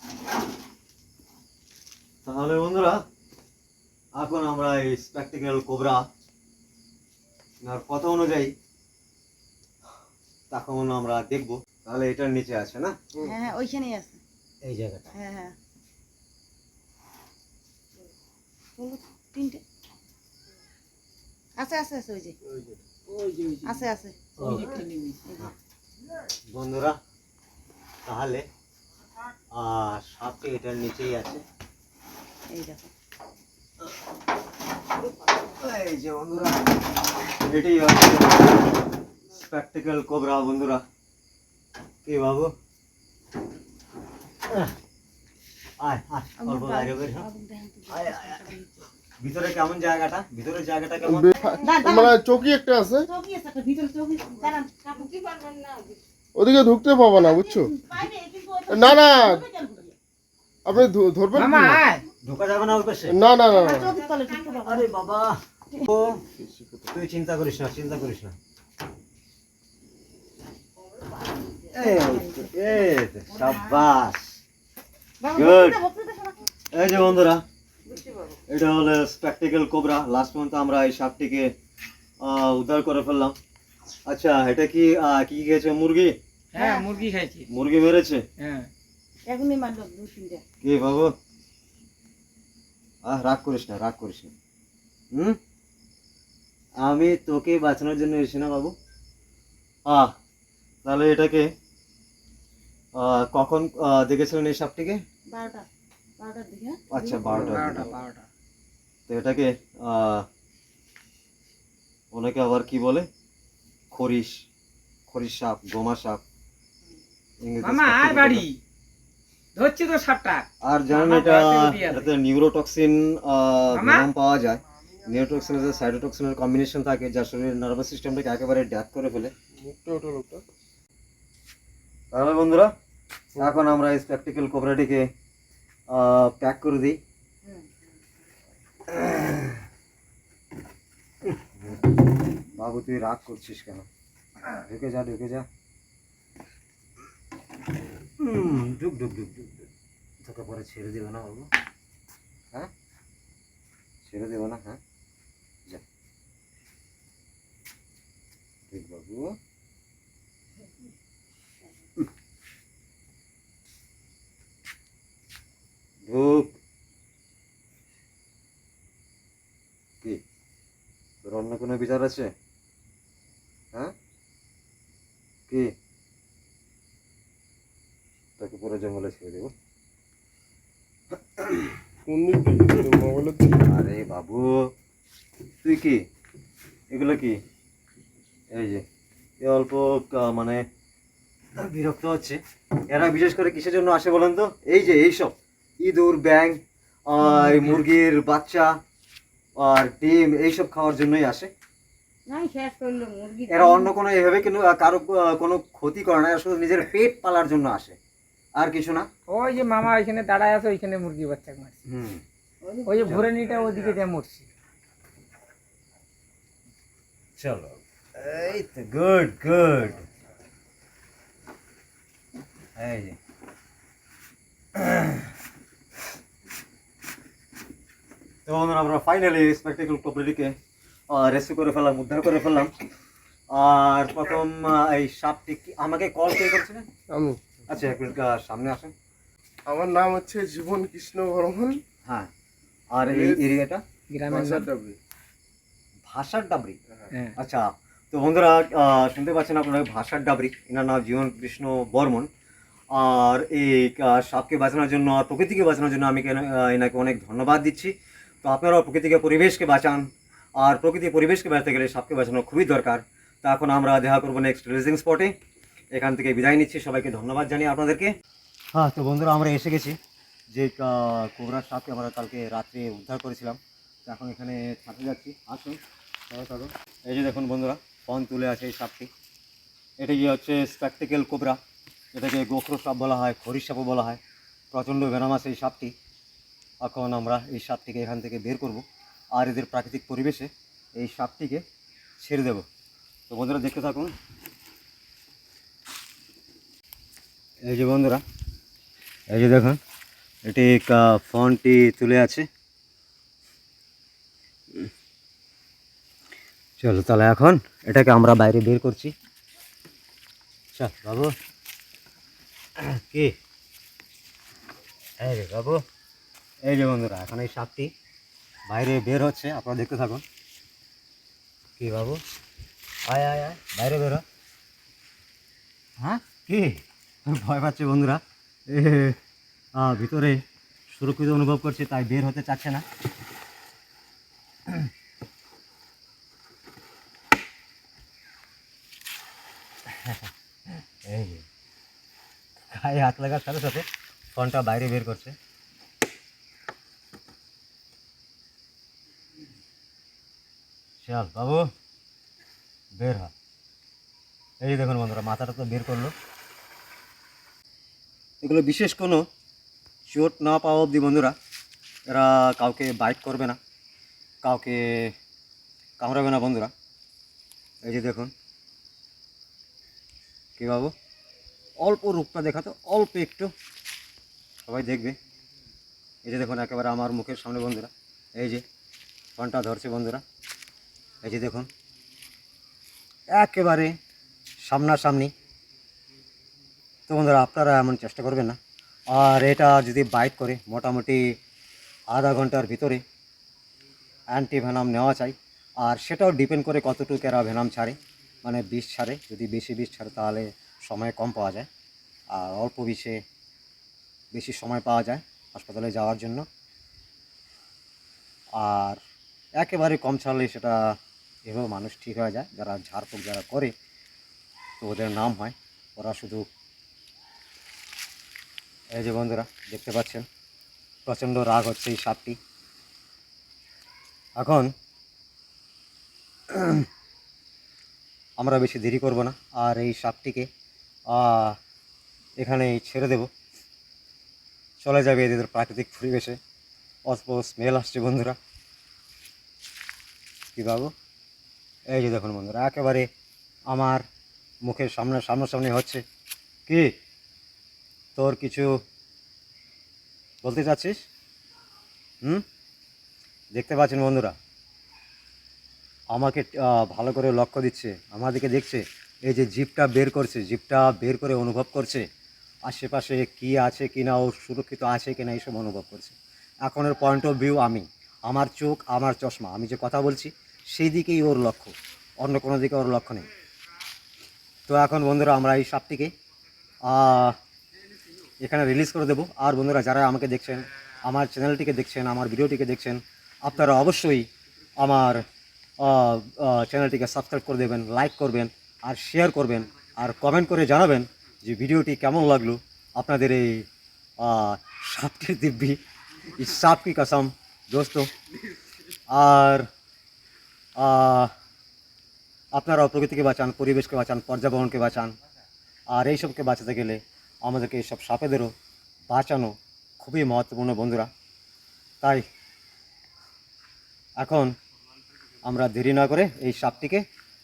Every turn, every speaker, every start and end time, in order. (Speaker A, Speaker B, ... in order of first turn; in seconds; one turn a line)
Speaker A: 2.2-3.0
Speaker A: 4.1-6.1
Speaker A: 7.6-8.5
Speaker A: 10.5-13.0
Speaker B: 13.2-14.2
Speaker A: 14.6-15.1
Speaker B: 15.1-15.6
Speaker B: 18.8-19.6
Speaker B: 21.6-22.4
Speaker C: 23.1-25.3
Speaker B: 23.7-24.1
Speaker A: 24.4-24.8
Speaker A: 26.5-27.0
Speaker A: 28.0-28.4
Speaker A: 29.5-31.4
Speaker B: 32.5-32.9
Speaker A: 35.5-38.7
Speaker A: 39.3-40.8
Speaker A: 42.0-42.5
Speaker A: 44.5-44.7
Speaker A: 45.8-47.3
Speaker B: 46.4-48.8
Speaker A: 47.9-48.5
Speaker A: 49.2-51.3
Speaker D: 51.2-53.1
Speaker B: 51.3-52.2
Speaker B: 53.1-55.7
Speaker D: 56.3-57.7
Speaker B: 57.3-59.9
Speaker D: 58.7-59.4
Speaker D: 60.6-61.8
Speaker C: 61.3-62.0
Speaker A: 62.2-63.2
Speaker D: 63.1-63.7
Speaker B: 63.6-64.9
Speaker A: 64.6-66.2
Speaker D: 66.4-66.8
Speaker A: 66.9-68.3
Speaker A: 71.7-74.4
Speaker B: 75.2-76.5
Speaker A: 75.3-75.8
Speaker A: 76.7-77.5
Speaker B: 77.9-78.4
Speaker A: 78.5-81.5
Speaker A: 82.2-83.4
Speaker A: 84.0-86.2
Speaker C: 86.5-87.5
Speaker B: 86.6-86.9
Speaker A: 87.5-88.2
Speaker C: 88.4-88.7
Speaker B: 89.3-90.4
Speaker A: 90.6-91.1
Speaker A: 93.0-94.3
Speaker A: 95.1-95.4
Speaker A: 96.8-98.7
Speaker A: 99.8-100.1
Speaker A: 100.8-101.5
Speaker A: 102.9-105.0
Speaker B: 105.3-105.7
Speaker B: 106.2-107.8
Speaker A: 106.9-107.9
Speaker C: 107.3-108.3
Speaker A: 109.1-110.3
Speaker A: 112.1-113.1
Speaker A: 113.9-114.4
Speaker A: 115.1-116.2
Speaker A: 117.4-118.5
Speaker C: 117.6-118.6
Speaker C: 119.5-122.1
Speaker A: 120.6-129.3
Speaker C: 123.7-124.1
Speaker D: 129.6-130.4
Speaker A: 132.1-132.7
Speaker A: 133.3-135.1
Speaker A: 135.9-137.0
Speaker A: 138.9-139.5
Speaker A: 141.2-141.9
Speaker A: 142.5-143.9
Speaker A: 144.5-145.5
Speaker A: 148.2-149.7
Speaker A: 150.2-151.5
Speaker A: 154.0-154.8
Speaker A: 158.7-159.4
Speaker A: 166.0-166.6
Speaker A: 171.2-172.3
Speaker A: 175.5-175.7
Speaker A: 178.4-179.5
Speaker A: 181.3-181.8
Speaker D: 182.1-183.6
Speaker A: 183.6-184.7
Speaker A: 185.6-186.0
Speaker A: 186.9-187.4
Speaker A: 188.5-188.8
Speaker A: 189.4-190.6
Speaker A: 191.6-198.8
Speaker C: 197.2-197.8
Speaker A: 199.6-201.5
Speaker B: 202.3-203.9
Speaker A: 203.5-208.0
Speaker A: 208.5-209.1
Speaker C: 209.3-211.8
Speaker A: 211.8-212.2
Speaker C: 212.8-214.5
Speaker A: 217.3-220.1
Speaker A: 222.8-223.2
Speaker A: 224.7-225.3
Speaker A: 228.4-230.6
Speaker A: 231.1-232.7
Speaker A: 233.5-236.9
Speaker D: 237.1-237.4
Speaker A: 237.7-238.9
Speaker D: 239.7-241.8
Speaker A: 242.0-242.3
Speaker A: 242.9-243.8
Speaker C: 244.1-244.7
Speaker D: 244.3-245.0
Speaker A: 246.1-246.8
Speaker A: 247.3-252.3
Speaker A: 252.9-265.3
Speaker A: 265.9-268.1
Speaker A: 268.7-270.0
Speaker A: 270.5-279.1
Speaker A: 280.0-281.6
Speaker A: 282.1-284.2
Speaker A: 284.7-285.9
Speaker A: 286.8-291.6
Speaker A: 292.2-292.6
Speaker A: 293.3-294.1
Speaker A: 297.6-298.2
Speaker A: 299.3-299.8
Speaker A: 300.4-302.5
Speaker A: 306.8-309.1
Speaker A: 310.7-311.3
Speaker A: 312.8-313.3
Speaker A: 315.2-315.8
Speaker A: 316.6-317.9
Speaker A: 318.7-320.2
Speaker A: 321.8-322.2
Speaker A: 323.1-324.2
Speaker A: 326.0-329.2
Speaker A: 329.7-332.8
Speaker A: 339.9-341.4
Speaker A: 342.7-345.4
Speaker A: 351.0-351.7
Speaker A: 352.9-353.3
Speaker A: 354.6-356.1
Speaker A: 358.4-359.3
Speaker A: 360.1-361.3
Speaker A: 362.1-363.6
Speaker A: 364.4-365.1
Speaker A: 366.0-366.7
Speaker A: 367.8-368.3
Speaker A: 370.6-370.9
Speaker A: 371.8-373.5
Speaker A: 374.6-375.2
Speaker A: 376.2-378.6
Speaker A: 379.4-380.2
Speaker A: 381.2-381.7
Speaker A: 383.3-384.0
Speaker A: 384.6-385.3
Speaker A: 387.1-388.6
Speaker A: 389.1-391.4
Speaker A: 392.1-393.0
Speaker A: 394.3-401.7
Speaker A: 402.3-403.2
Speaker A: 404.3-406.4
Speaker A: 408.5-409.0
Speaker A: 409.6-413.7
Speaker A: 414.8-416.5
Speaker A: 418.9-420.2
Speaker A: 421.1-422.4
Speaker A: 424.4-424.7
Speaker A: 426.5-426.9
Speaker A: 428.4-430.5
Speaker A: 431.1-431.6
Speaker A: 432.4-433.3
Speaker A: 434.8-436.4
Speaker A: 437.1-438.4
Speaker A: 440.5-440.9
Speaker A: 441.9-443.1
Speaker A: 443.7-444.0
Speaker A: 444.6-446.0
Speaker A: 446.7-446.9
Speaker A: 448.1-448.7
Speaker A: 450.4-451.0
Speaker A: 453.5-454.4
Speaker A: 456.1-462.1
Speaker A: 462.6-473.3
Speaker A: 474.7-476.1
Speaker A: 476.8-477.4
Speaker A: 478.4-485.2
Speaker A: 485.8-493.7
Speaker A: 494.2-495.8
Speaker A: 496.3-498.1
Speaker A: 499.1-499.7
Speaker A: 500.8-501.3
Speaker A: 502.5-505.1
Speaker A: 505.9-508.5
Speaker A: 509.1-511.1
Speaker A: 512.0-512.2
Speaker A: 514.2-514.5
Speaker A: 515.4-517.0